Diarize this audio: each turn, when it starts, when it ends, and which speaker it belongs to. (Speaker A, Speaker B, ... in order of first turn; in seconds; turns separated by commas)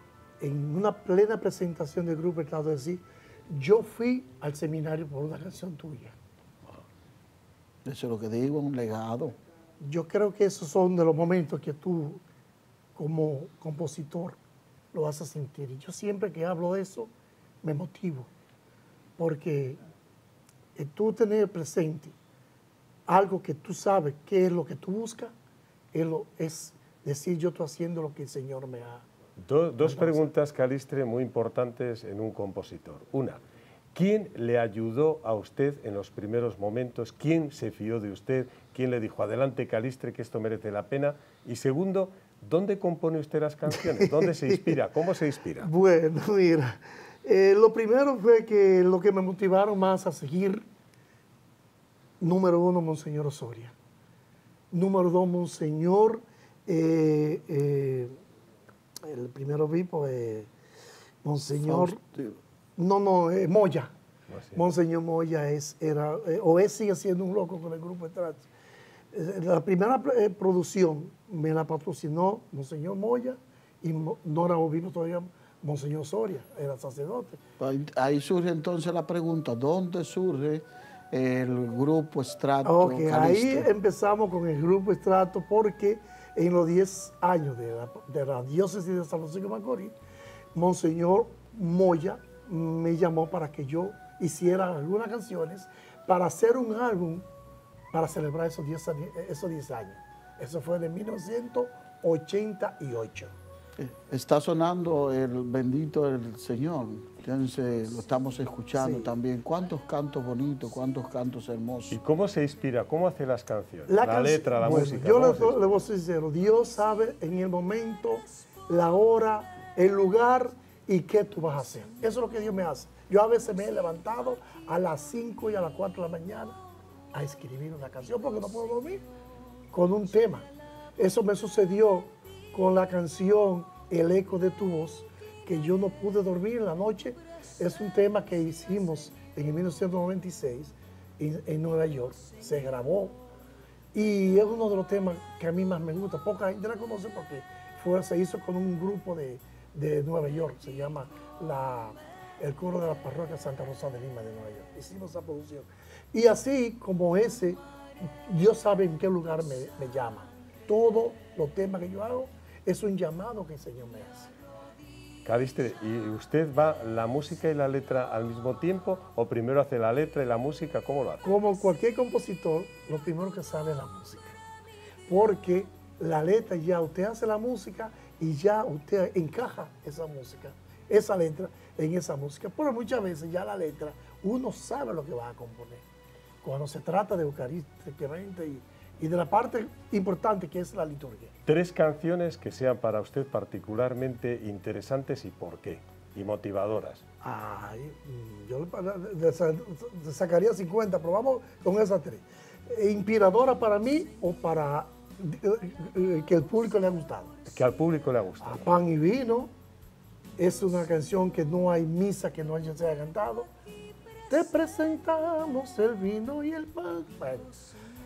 Speaker A: 0.4-6.2, Speaker B: 7.8-9.3, Speaker A: 9.8-12.2, Speaker A: 12.9-14.4, Speaker A: 14.9-17.1, Speaker A: 17.6-18.3, Speaker A: 19.2-19.8, Speaker A: 20.8-22.1, Speaker A: 23.1-25.3, Speaker A: 25.9-29.0, Speaker C: 29.4-33.4, Speaker A: 29.8-30.2, Speaker C: 33.9-45.7, Speaker A: 43.8-44.8, Speaker A: 45.6-50.6, Speaker A: 52.2-53.7, Speaker A: 54.7-58.1, Speaker A: 59.0-60.5, Speaker A: 61.2-62.0, Speaker B: 61.6-62.4, Speaker A: 62.8-63.9, Speaker C: 64.3-64.6, Speaker A: 64.5-68.5, Speaker A: 69.1-77.4, Speaker B: 77.6-83.7, Speaker A: 82.6-89.9, Speaker A: 90.5-97.2, Speaker A: 97.9-103.3, Speaker B: 103.8-112.0, Speaker A: 108.7-109.2, Speaker C: 111.9-115.7, Speaker A: 113.9-126.6, Speaker A: 127.1-129.0, Speaker A: 129.7-143.2, Speaker A: 143.9-157.6, Speaker A: 158.2-164.3, Speaker C: 165.2-171.2, Speaker A: 171.2-174.4, Speaker A: 175.1-185.8, Speaker A: 186.4-191.3, Speaker C: 191.5-197.0, Speaker A: 197.2-207.3, Speaker C: 207.5-208.8, Speaker A: 208.4-209.5, Speaker A: 210.4-213.5, Speaker A: 214.3-217.5